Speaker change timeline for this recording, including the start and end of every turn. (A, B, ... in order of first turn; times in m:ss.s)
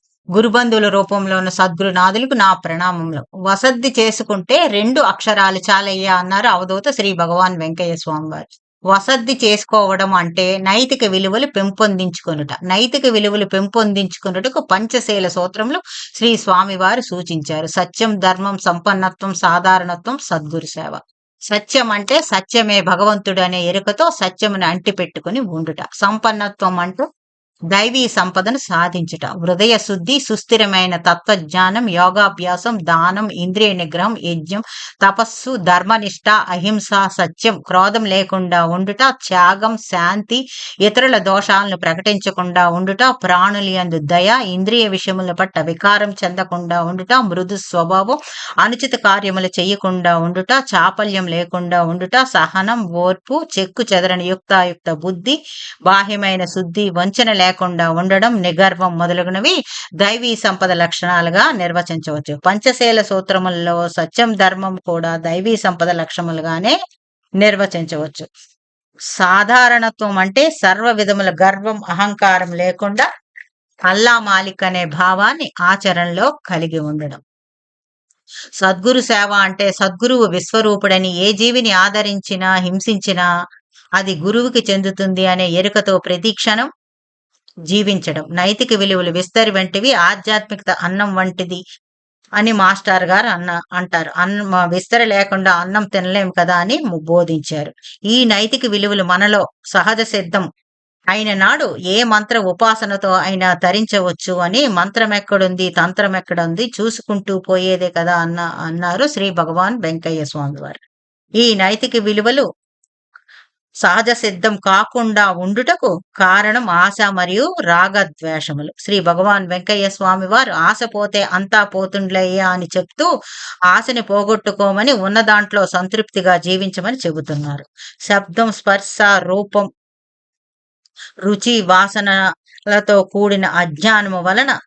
0:00.4-0:27.0 A
0:27.7-0:55.4 A
0:55.9-1:06.8 A
1:07.4-1:08.3 A
1:09.2-1:13.0 A
1:13.9-1:17.2 A
1:18.6-1:23.3 A
1:24.0-1:26.7 A
1:27.7-1:31.6 A
1:32.4-1:40.4 A
1:41.1-1:50.8 A
1:51.4-1:52.4 A
1:53.8-2:03.1 A
2:03.7-2:09.7 A
2:11.2-2:12.2 A
2:12.7-2:14.5 A